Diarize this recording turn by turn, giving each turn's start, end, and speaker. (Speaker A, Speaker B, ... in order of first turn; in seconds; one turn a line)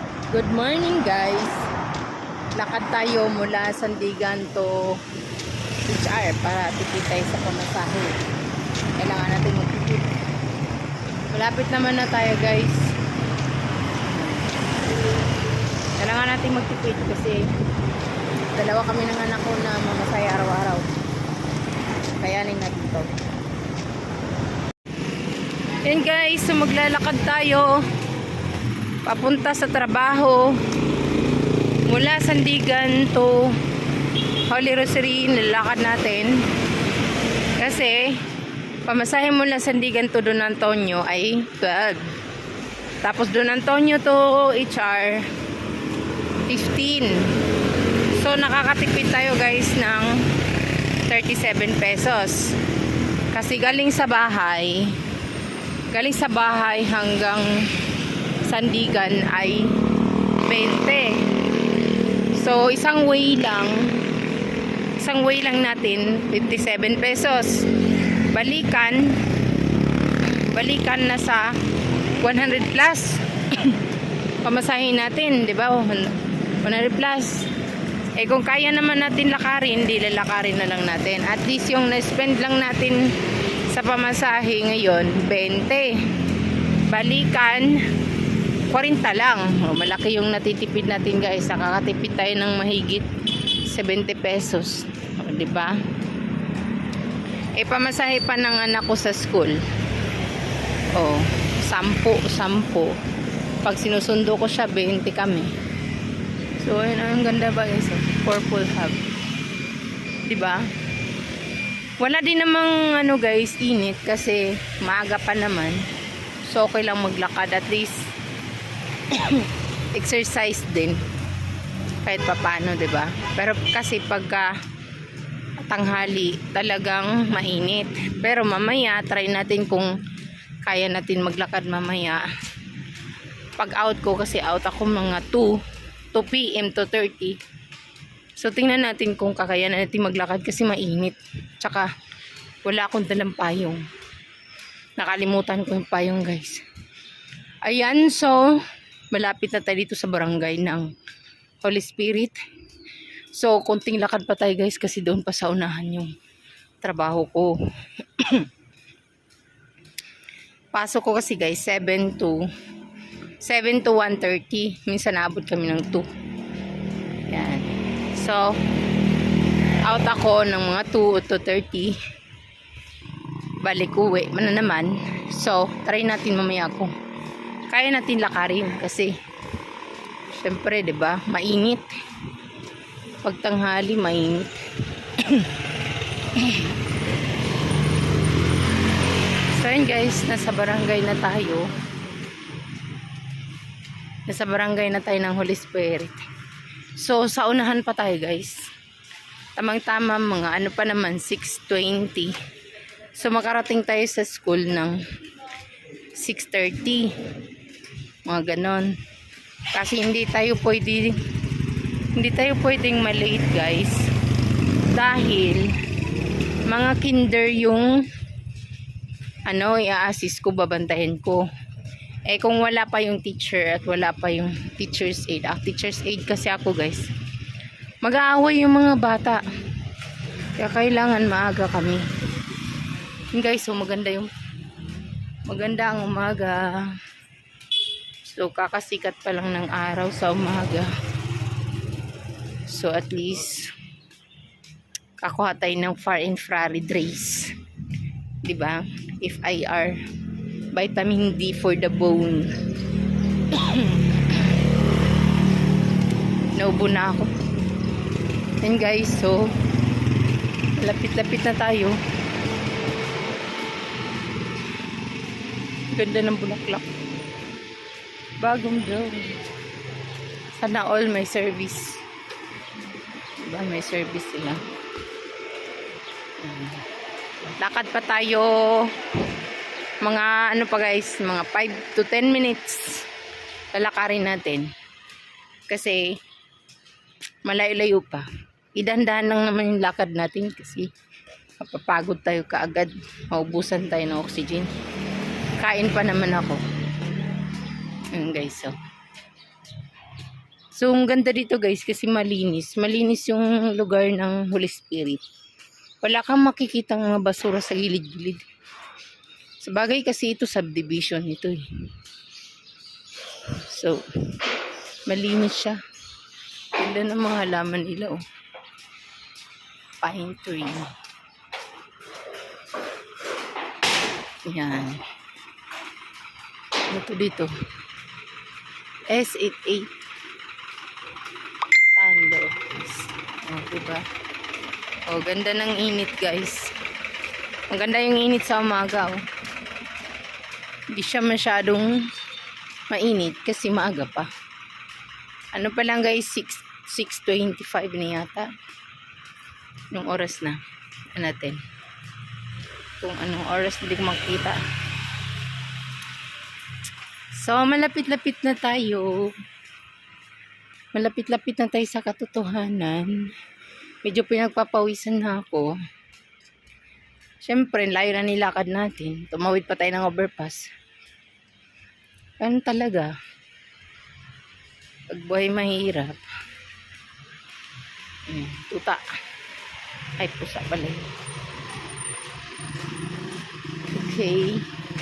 Speaker A: 0.3-1.7
Speaker A: 2.6-4.9
Speaker A: 5.9-8.1
Speaker A: 9.0-10.2
Speaker A: 11.3-12.9
Speaker A: 14.1-14.5
Speaker A: 16.0-17.5
Speaker A: 18.5-20.9
Speaker A: 22.2-23.1
Speaker A: 25.8-27.8
Speaker A: 29.1-30.6
Speaker A: 31.9-33.5
Speaker A: 34.5-36.4
Speaker A: 37.6-38.2
Speaker A: 38.9-42.1
Speaker A: 43.0-45.3
Speaker A: 46.5-47.2
Speaker A: 48.1-50.2
Speaker A: 51.1-52.5
Speaker A: 53.3-55.0
Speaker A: 55.9-57.5
Speaker A: 58.5-59.7
Speaker A: 60.4-61.2
Speaker A: 62.4-63.9
Speaker A: 65.0-67.7
Speaker A: 68.3-69.1
Speaker A: 70.2-71.5
Speaker A: 72.2-73.8
Speaker A: 74.4-77.5
Speaker A: 78.2-83.0
Speaker A: 83.7-86.0
Speaker A: 86.9-87.8
Speaker A: 88.7-93.1
Speaker A: 93.7-95.7
Speaker A: 97.6-99.6
Speaker A: 101.0-102.9
Speaker A: 103.6-105.5
Speaker A: 106.6-109.0
Speaker A: 110.3-110.6
Speaker A: 112.0-115.8
Speaker A: 116.5-118.0
Speaker A: 119.1-121.0
Speaker A: 122.0-124.5
Speaker A: 125.7-129.9
Speaker A: 130.6-132.2
Speaker A: 133.6-135.6
Speaker A: 136.1-137.4
Speaker A: 138.4-141.9
Speaker A: 142.6-143.8
Speaker A: 145.0-146.6
Speaker A: 147.6-148.6
Speaker A: 149.1-150.9
Speaker A: 151.6-152.4
Speaker A: 153.3-156.1
Speaker A: 156.8-158.5
Speaker A: 160.7-162.4
Speaker A: 163.4-166.1
Speaker A: 167.3-168.4
Speaker A: 169.8-172.0
Speaker A: 173.6-176.9
Speaker A: 177.7-179.1
Speaker A: 180.3-181.9
Speaker A: 183.2-184.6
Speaker A: 185.2-185.5
Speaker A: 186.3-186.7
Speaker A: 189.5-191.7
Speaker A: 194.3-196.3
Speaker A: 197.0-198.6
Speaker A: 199.6-202.3
Speaker A: 203.2-205.0
Speaker A: 206.2-207.1
Speaker A: 208.2-208.9
Speaker A: 209.7-211.2
Speaker A: 212.2-214.0
Speaker A: 214.9-215.7
Speaker A: 216.7-218.1
Speaker A: 219.5-221.4
Speaker A: 222.3-227.1
Speaker A: 228.0-229.4
Speaker A: 230.6-232.0
Speaker A: 233.3-234.3
Speaker A: 235.5-236.9
Speaker A: 238.2-240.9
Speaker A: 242.7-243.7
Speaker A: 245.2-247.5
Speaker A: 248.4-250.0
Speaker A: 250.7-252.5
Speaker A: 253.5-254.5
Speaker A: 256.6-257.3
Speaker A: 258.6-259.4
Speaker A: 260.8-262.0
Speaker A: 265.9-266.9
Speaker A: 268.4-269.4
Speaker A: 270.5-272.0
Speaker A: 273.4-274.6
Speaker A: 276.4-276.8
Speaker A: 277.6-278.9
Speaker A: 280.0-283.0
Speaker A: 283.7-284.7
Speaker A: 285.7-286.0
Speaker A: 287.4-290.9
Speaker A: 291.6-294.7
Speaker A: 295.6-296.6
Speaker A: 298.1-298.7
Speaker A: 300.8-305.2
Speaker A: 306.0-308.4
Speaker A: 309.6-311.6
Speaker A: 313.6-314.0
Speaker A: 315.1-315.8
Speaker A: 316.8-318.2
Speaker A: 320.0-320.9
Speaker A: 324.4-325.0
Speaker A: 326.9-327.5
Speaker A: 329.1-329.9
Speaker A: 331.9-334.0
Speaker A: 335.1-336.7
Speaker A: 337.7-339.2
Speaker A: 340.9-341.9
Speaker A: 342.9-344.3
Speaker A: 345.5-348.5
Speaker A: 349.9-350.6
Speaker A: 351.1-351.6
Speaker A: 353.0-354.6
Speaker A: 357.3-359.3
Speaker A: 360.9-363.2
Speaker A: 364.0-365.7
Speaker A: 367.4-370.6
Speaker A: 372.4-373.1
Speaker A: 375.1-376.2
Speaker A: 378.3-379.0
Speaker A: 380.2-381.1
Speaker A: 383.9-384.6